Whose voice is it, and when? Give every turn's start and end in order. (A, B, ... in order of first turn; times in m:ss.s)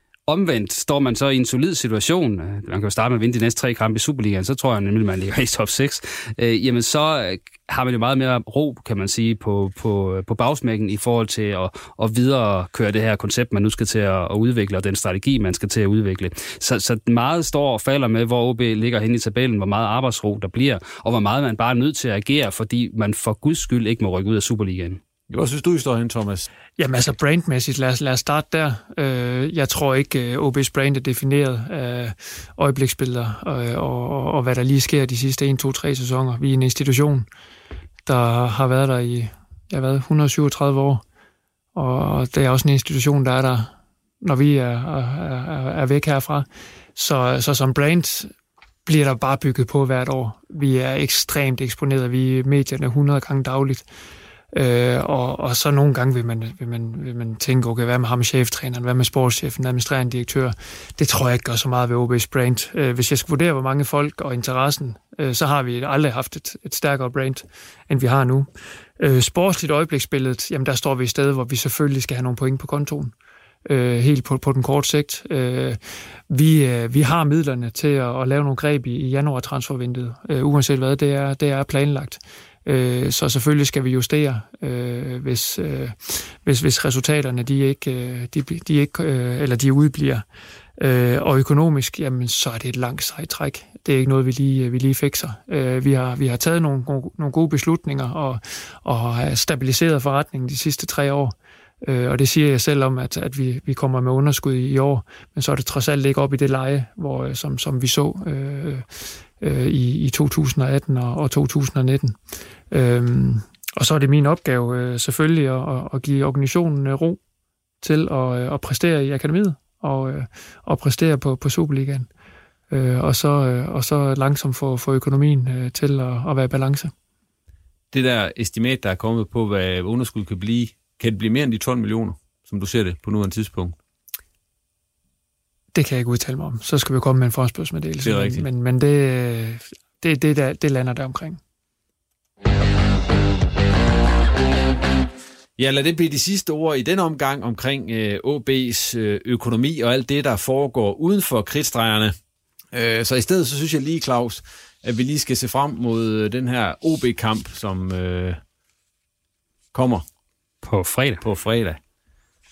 0:00.3-0:25.0 A
0:25.3-0:26.5 B
0:26.8-0:37.3 C
0:38.1-0:41.0 C
0:41.8-0:48.3 C
0:48.9-0:53.9 C
0:54.5-1:13.1 C
1:13.7-1:30.2 C
1:30.8-1:52.2 C
1:52.7-1:57.2 C
1:57.8-2:02.1 C
2:02.7-2:06.9 C
2:07.9-2:13.8 B
2:15.7-2:21.4 C
2:18.0-2:18.5 B
2:25.6-2:32.2 B
2:32.7-2:38.4 B
2:39.7-2:40.0 B
2:40.6-2:41.2 A
2:41.2-2:41.8 B